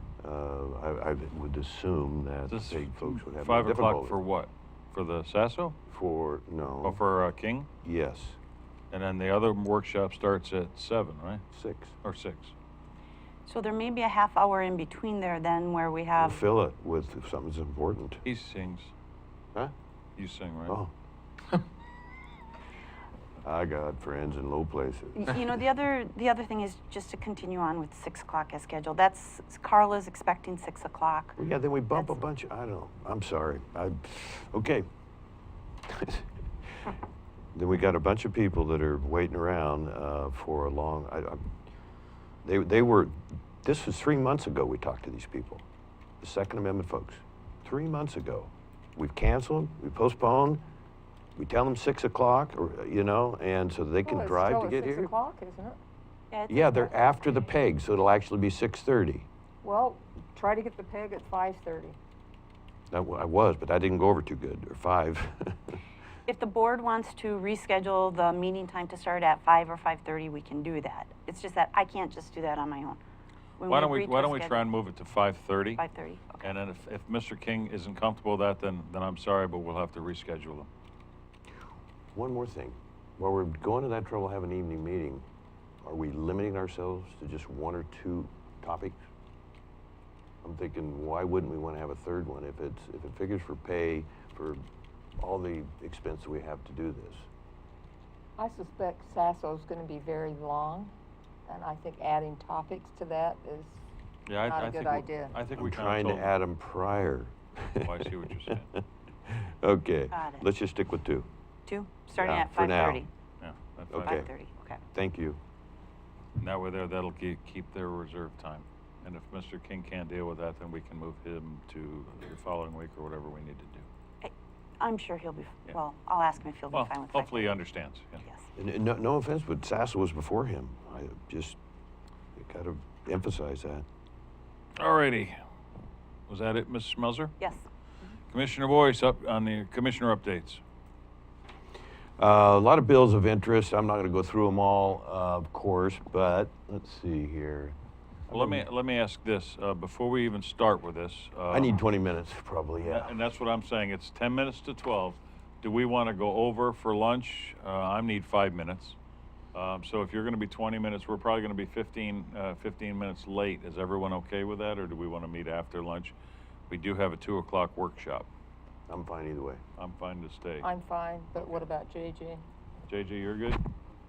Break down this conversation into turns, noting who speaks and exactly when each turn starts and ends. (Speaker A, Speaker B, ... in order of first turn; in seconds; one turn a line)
Speaker A: 0.2-4.2
Speaker B: 2.5-5.8
Speaker A: 5.9-7.0
Speaker B: 6.8-7.7
Speaker A: 7.8-8.4
Speaker B: 8.9-11.4
Speaker A: 11.5-12.0
Speaker B: 12.0-12.5
Speaker C: 13.5-16.4
Speaker A: 16.2-18.2
Speaker B: 18.2-18.9
Speaker B: 20.2-20.8
Speaker A: 23.4-25.4
Speaker C: 25.2-31.4
Speaker A: 31.4-34.9
Speaker C: 31.9-32.2
Speaker A: 35.9-36.3
Speaker A: 37.5-41.5
Speaker A: 42.5-45.6
Speaker A: 46.2-50.6
Speaker A: 51.4-55.1
Speaker D: 54.0-55.8
Speaker C: 56.3-56.6
Speaker A: 56.5-59.3
Speaker D: 59.6-62.0
Speaker A: 62.9-65.8
Speaker C: 66.3-73.0
Speaker C: 73.6-74.7
Speaker B: 73.7-75.8
Speaker C: 75.8-76.5
Speaker B: 76.4-80.7
Speaker A: 82.1-85.3
Speaker A: 85.8-89.0
Speaker A: 90.4-94.6
Speaker A: 95.2-97.3
Speaker D: 98.4-100.9
Speaker D: 101.5-103.8
Speaker B: 104.3-106.3
Speaker D: 104.5-105.4
Speaker A: 105.6-111.3
Speaker B: 107.8-108.7
Speaker C: 110.1-110.5
Speaker C: 111.7-113.1
Speaker A: 112.2-113.0
Speaker B: 113.4-114.3
Speaker A: 113.9-114.3
Speaker C: 114.1-114.8
Speaker A: 114.9-115.4
Speaker B: 116.4-123.9
Speaker C: 124.2-127.6
Speaker B: 126.7-128.2
Speaker A: 128.6-131.6
Speaker A: 132.4-133.8
Speaker B: 134.8-135.4
Speaker B: 136.3-137.3
Speaker B: 138.3-140.6
Speaker A: 142.2-147.8
Speaker A: 148.3-148.6
Speaker B: 148.3-151.8
Speaker A: 151.5-153.2
Speaker B: 152.8-159.0
Speaker B: 159.5-166.2
Speaker B: 166.7-168.3
Speaker A: 168.9-169.6
Speaker B: 169.8-170.7
Speaker D: 170.6-172.4
Speaker B: 172.9-173.6